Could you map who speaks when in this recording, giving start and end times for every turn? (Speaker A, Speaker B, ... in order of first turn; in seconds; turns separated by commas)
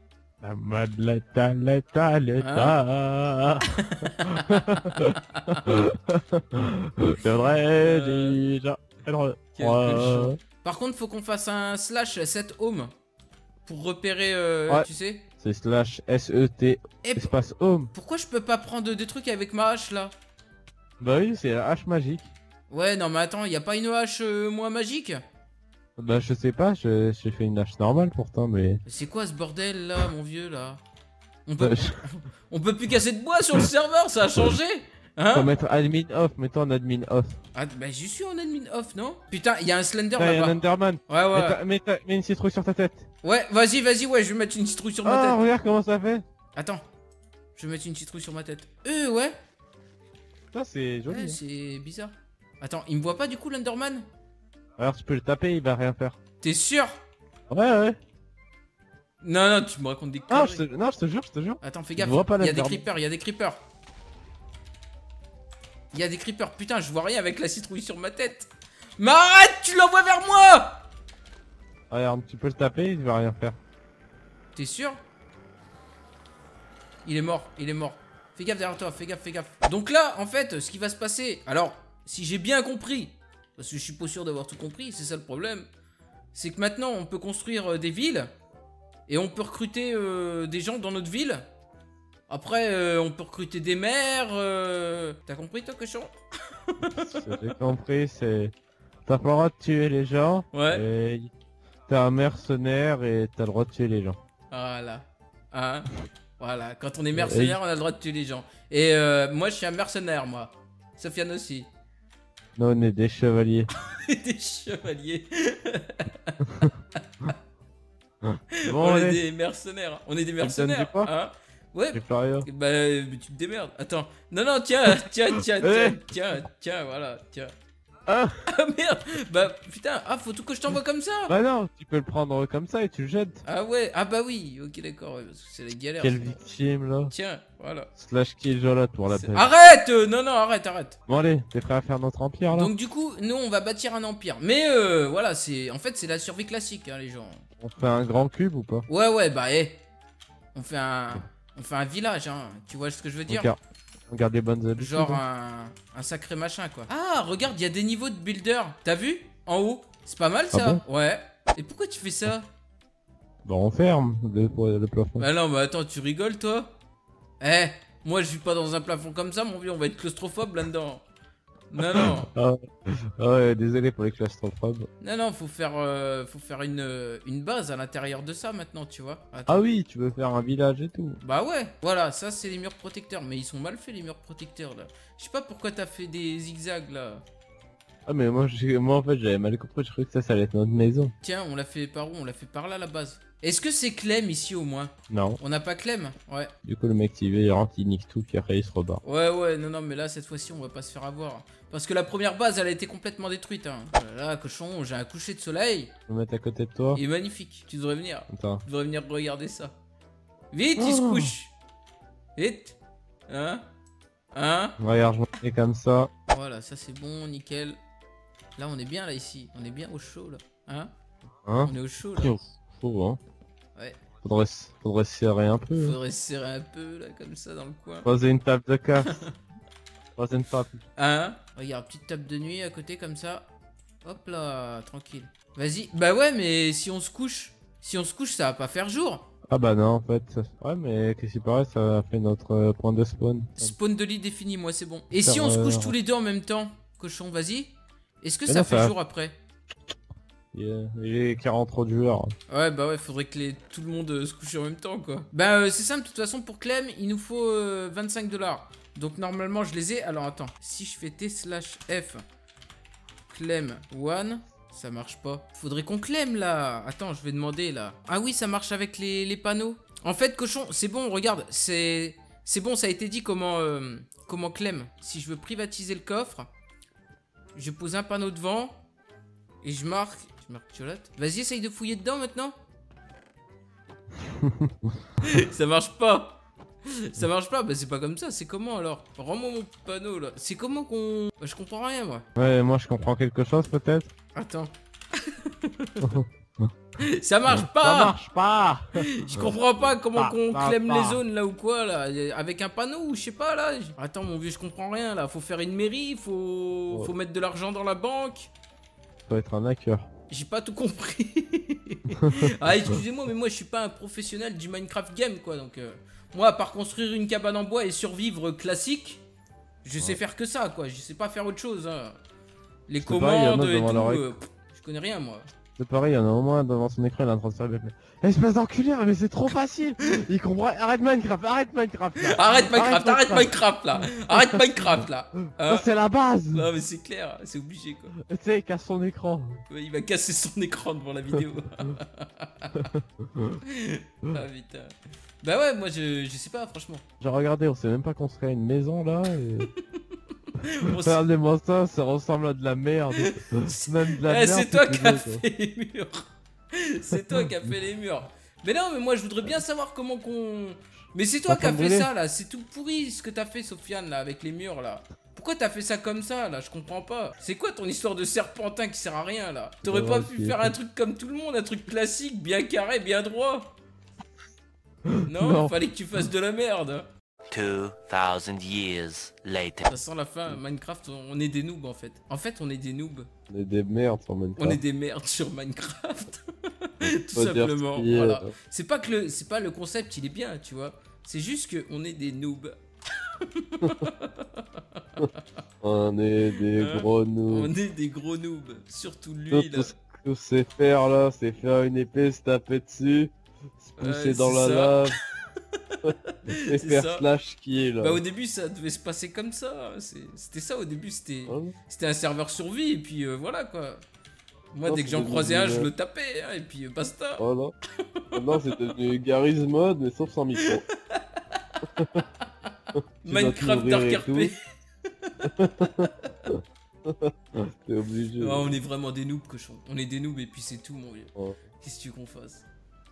Speaker A: 0.4-10.4, Speaker B: 2.4-2.8, Speaker B: 3.8-5.6, Speaker B: 7.8-8.4, Speaker B: 9.6-12.9, Speaker B: 13.7-15.2, Speaker A: 15.4-17.9, Speaker B: 17.0-17.3, Speaker B: 17.9-20.1, Speaker A: 21.0-22.3, Speaker B: 22.7-25.2, Speaker A: 26.0-28.8, Speaker B: 28.9-30.8, Speaker B: 31.5-35.5, Speaker A: 31.6-32.0, Speaker A: 35.3-37.4, Speaker B: 37.5-41.6, Speaker A: 40.2-43.0, Speaker B: 43.2-45.4, Speaker A: 45.0-46.2, Speaker B: 46.5-46.8, Speaker B: 47.6-49.4, Speaker A: 50.5-51.4, Speaker B: 51.1-54.0, Speaker A: 54.8-56.2, Speaker B: 56.4-57.0, Speaker A: 57.5-58.0, Speaker B: 59.2-60.6, Speaker A: 60.3-62.8, Speaker B: 61.6-63.6, Speaker B: 65.9-70.8, Speaker A: 71.9-73.6, Speaker B: 74.5-75.0, Speaker B: 77.0-85.7, Speaker B: 86.3-88.3, Speaker B: 89.1-91.5, Speaker B: 92.3-97.2, Speaker A: 96.9-98.5, Speaker A: 99.1-101.3, Speaker B: 100.5-100.8, Speaker A: 101.9-104.2, Speaker B: 104.5-111.7, Speaker A: 107.1-107.6, Speaker A: 112.6-113.7, Speaker B: 113.7-116.4, Speaker A: 118.2-119.2, Speaker B: 118.7-127.5, Speaker A: 120.4-121.1, Speaker A: 121.9-122.5, Speaker A: 124.9-126.0, Speaker A: 128.1-128.3, Speaker B: 128.5-131.3, Speaker A: 131.3-133.4, Speaker B: 133.5-136.4, Speaker A: 136.0-137.1, Speaker B: 137.1-137.9, Speaker A: 138.0-139.5, Speaker B: 139.1-141.0, Speaker A: 141.1-142.7, Speaker B: 142.5-147.4, Speaker A: 147.6-148.9, Speaker B: 148.9-149.8, Speaker B: 150.5-153.5, Speaker A: 153.3-153.6, Speaker A: 154.1-155.2, Speaker B: 154.8-162.5, Speaker A: 160.5-160.8, Speaker A: 163.4-165.3, Speaker B: 165.2-166.7, Speaker B: 167.4-171.1, Speaker B: 171.7-172.3, Speaker A: 171.8-174.9, Speaker B: 175.0-179.6, Speaker A: 179.5-181.2, Speaker B: 181.2-187.2, Speaker A: 188.1-191.1, Speaker B: 191.2-196.5, Speaker A: 195.1-195.4, Speaker A: 196.6-199.0, Speaker B: 199.0-205.9, Speaker A: 206.1-207.0, Speaker B: 206.9-209.8, Speaker A: 208.3-208.6, Speaker B: 210.5-211.5, Speaker A: 210.8-211.3, Speaker B: 212.4-212.8, Speaker B: 213.3-213.6, Speaker B: 214.3-214.8, Speaker A: 214.8-216.1, Speaker B: 216.3-217.8, Speaker B: 218.6-220.9, Speaker A: 221.4-223.2, Speaker B: 221.6-222.3, Speaker A: 224.2-226.0, Speaker B: 225.8-228.1, Speaker A: 228.1-229.2, Speaker B: 229.1-229.3, Speaker A: 230.2-230.8, Speaker B: 231.0-233.5, Speaker B: 234.1-239.3, Speaker A: 239.5-243.7, Speaker B: 243.6-247.7, Speaker A: 245.2-246.0, Speaker B: 248.2-249.3, Speaker A: 248.5-248.9, Speaker A: 250.5-252.3, Speaker B: 252.5-262.2, Speaker B: 263.3-276.5, Speaker B: 277.6-278.8, Speaker B: 279.6-282.5, Speaker A: 284.3-284.9, Speaker B: 285.2-292.2, Speaker A: 292.4-294.1, Speaker B: 294.4-296.1, Speaker A: 296.0-296.7, Speaker B: 297.0-298.1, Speaker A: 297.5-299.5, Speaker B: 299.0-308.5, Speaker A: 300.1-301.2, Speaker A: 309.3-310.1, Speaker B: 310.3-319.2, Speaker A: 312.1-312.5, Speaker B: 319.8-322.2, Speaker B: 322.9-325.5, Speaker A: 323.0-324.3, Speaker A: 325.8-335.0, Speaker B: 332.2-335.9, Speaker A: 335.6-336.7, Speaker B: 336.5-338.1, Speaker A: 338.2-339.6, Speaker B: 339.7-342.9, Speaker A: 342.8-343.6, Speaker B: 343.7-347.0, Speaker A: 347.2-349.7, Speaker B: 349.8-351.2, Speaker A: 350.9-355.4, Speaker B: 353.2-373.7, Speaker A: 361.5-362.1, Speaker A: 369.8-370.7, Speaker A: 375.1-375.8, Speaker B: 375.3-377.1, Speaker C: 377.5-379.9, Speaker B: 379.9-383.3, Speaker A: 383.5-384.8, Speaker B: 384.6-395.4, Speaker A: 387.0-388.5, Speaker A: 395.8-397.7, Speaker B: 396.8-399.9, Speaker A: 399.5-405.2, Speaker B: 404.0-407.2, Speaker A: 406.0-408.2, Speaker B: 408.0-414.0, Speaker A: 411.5-411.8, Speaker B: 414.7-417.4, Speaker A: 414.9-415.9, Speaker A: 417.4-417.7, Speaker A: 418.3-420.8, Speaker B: 420.6-421.7, Speaker A: 421.8-422.2, Speaker B: 422.4-422.7, Speaker A: 422.9-424.5, Speaker B: 423.2-424.6, Speaker B: 425.1-426.1, Speaker A: 425.4-428.7, Speaker B: 428.4-432.6